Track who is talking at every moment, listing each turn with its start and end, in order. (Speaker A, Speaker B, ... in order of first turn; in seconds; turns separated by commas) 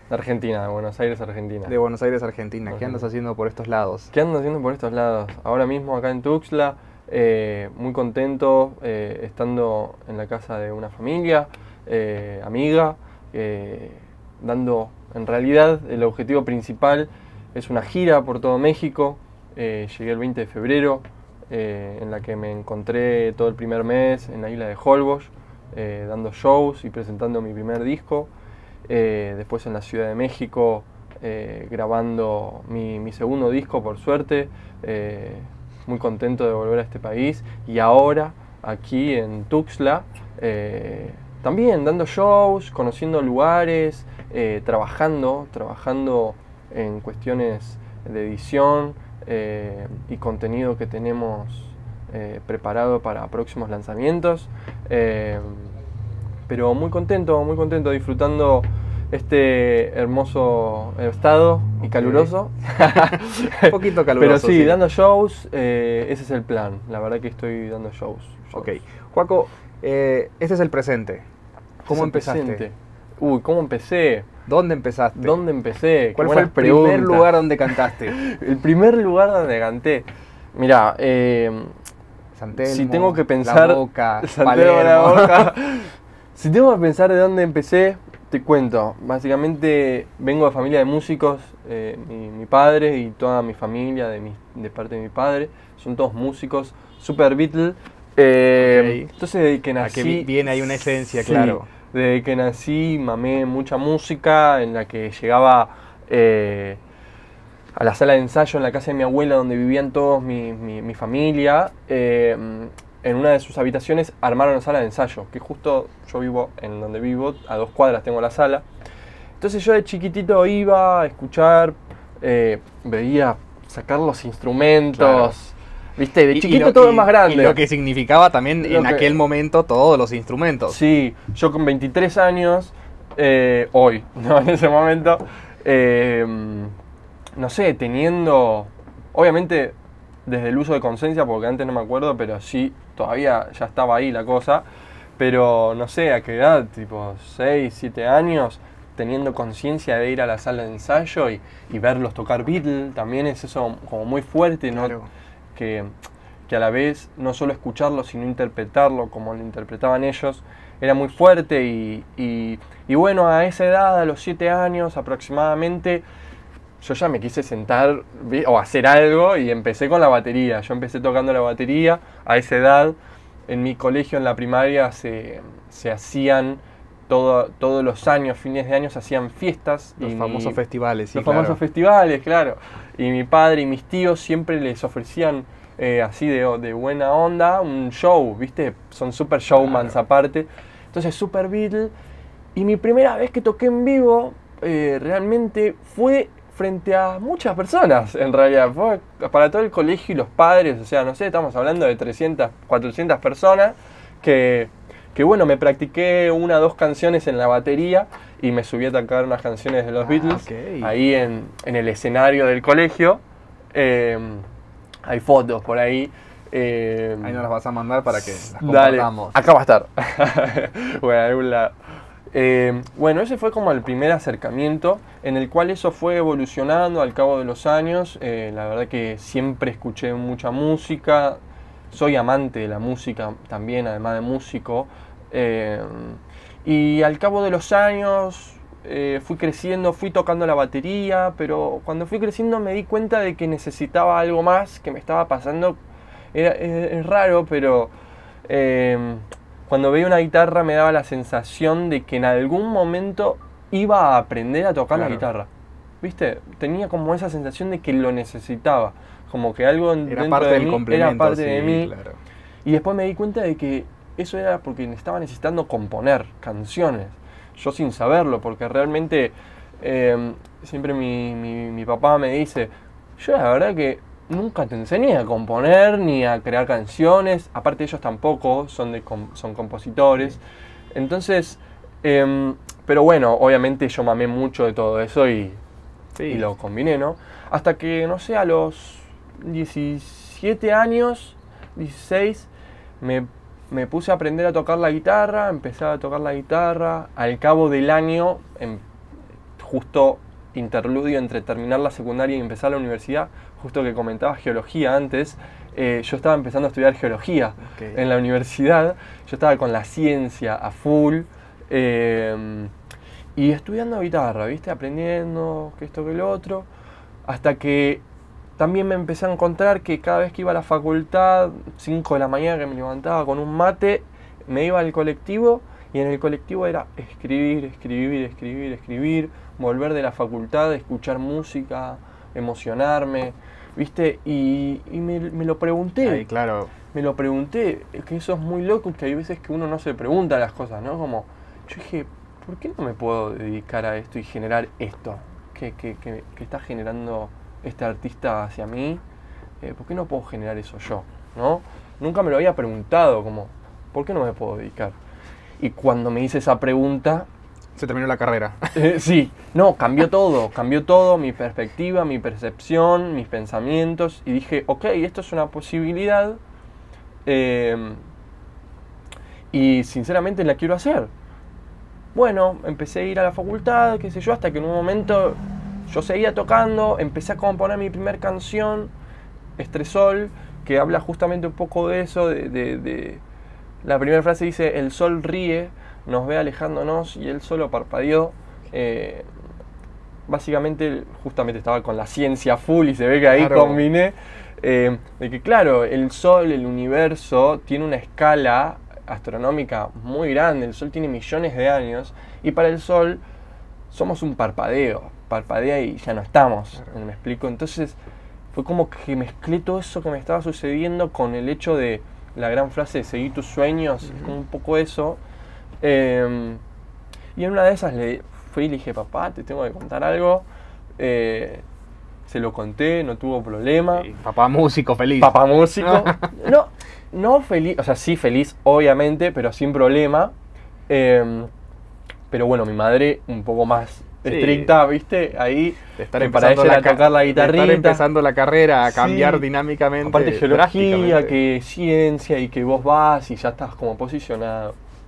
Speaker A: 0.1-1.7, Speaker B: 1.7-4.1, Speaker A: 2.7-3.1, Speaker A: 4.1-28.3, Speaker A: 28.9-55.8, Speaker A: 56.5-68.8, Speaker B: 61.9-62.3, Speaker B: 63.6-64.8, Speaker B: 68.5-71.2, Speaker A: 71.8-74.3, Speaker B: 71.9-72.7, Speaker B: 74.5-75.4, Speaker A: 75.2-81.7, Speaker B: 76.2-78.2, Speaker B: 82.4-85.5, Speaker A: 82.6-106.8, Speaker B: 98.6-99.1, Speaker B: 99.8-101.7, Speaker A: 107.8-118.7, Speaker A: 119.4-127.6, Speaker B: 125.0-125.4, Speaker B: 126.3-130.8, Speaker A: 128.6-129.2, Speaker A: 130.7-136.7, Speaker A: 137.4-144.7, Speaker A: 145.2-154.9, Speaker B: 154.7-155.1, Speaker A: 155.6-155.9, Speaker A: 156.5-166.1, Speaker A: 166.8-180.6, Speaker B: 180.0-181.6, Speaker A: 181.1-191.9, Speaker B: 189.6-189.9, Speaker A: 192.6-213.2, Speaker B: 210.0-210.9, Speaker A: 213.7-214.4, Speaker A: 215.1-217.4, Speaker B: 217.2-219.4, Speaker A: 218.1-221.7, Speaker A: 222.3-245.8, Speaker A: 246.3-247.9, Speaker A: 248.5-255.5, Speaker B: 254.9-255.3, Speaker A: 256.0-261.9, Speaker B: 260.1-262.2, Speaker A: 262.6-280.4, Speaker A: 280.9-285.6, Speaker B: 286.2-286.5, Speaker A: 286.3-292.5, Speaker A: 293.0-298.8, Speaker A: 299.6-312.7, Speaker B: 307.6-308.0, Speaker A: 313.4-316.7, Speaker A: 317.3-318.0, Speaker A: 318.6-336.3, Speaker B: 336.0-336.7, Speaker A: 336.9-349.0, Speaker A: 349.6-355.0, Speaker A: 355.6-357.3, Speaker B: 357.8-358.9, Speaker A: 358.7-366.4, Speaker A: 367.3-368.0, Speaker A: 369.5-371.1, Speaker A: 372.1-378.9, Speaker A: 379.6-383.2, Speaker A: 383.8-389.3, Speaker A: 390.3-403.2, Speaker B: 393.3-393.9, Speaker A: 403.9-408.0, Speaker A: 408.5-415.2, Speaker A: 415.8-416.6, Speaker A: 417.4-420.5, Speaker A: 421.0-421.6, Speaker A: 422.3-424.1, Speaker B: 423.9-426.3, Speaker A: 425.2-430.3, Speaker A: 430.9-431.5, Speaker A: 432.3-438.0, Speaker B: 434.2-434.8, Speaker B: 436.0-441.4, Speaker A: 438.9-439.5, Speaker A: 440.0-444.8